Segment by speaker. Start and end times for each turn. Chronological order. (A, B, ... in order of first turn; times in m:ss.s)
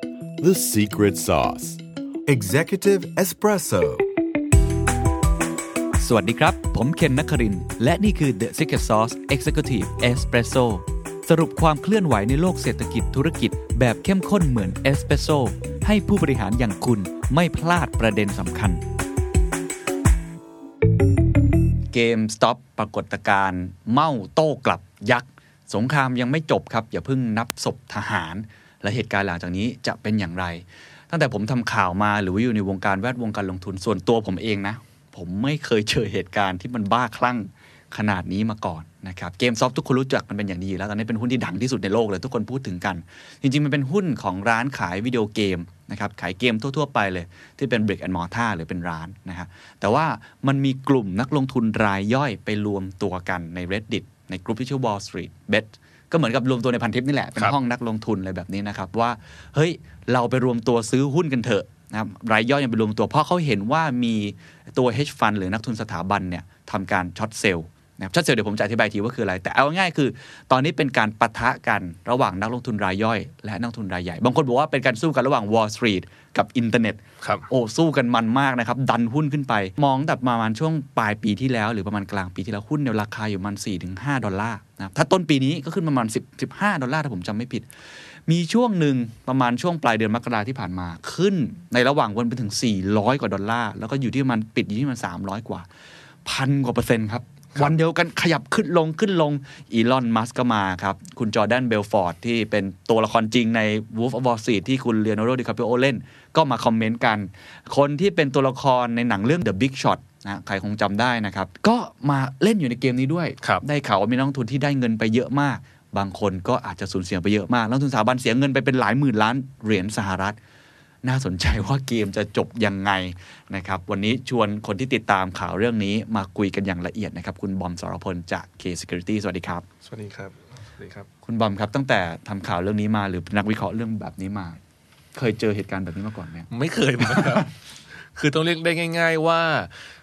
0:00.4-0:04.1 A
0:06.0-0:18.8 B
0:21.9-1:27.7 B
1:28.2-1:35.6 B
1:36.2-2:00.4 B
2:01.0-2:09.6 B
2:09.8-2:11.1 C
2:11.2-2:14.6 B
2:15.1-2:16.5 B
2:16.5-2:17.5 C
2:17.0-2:17.4 B
2:18.2-2:19.7 C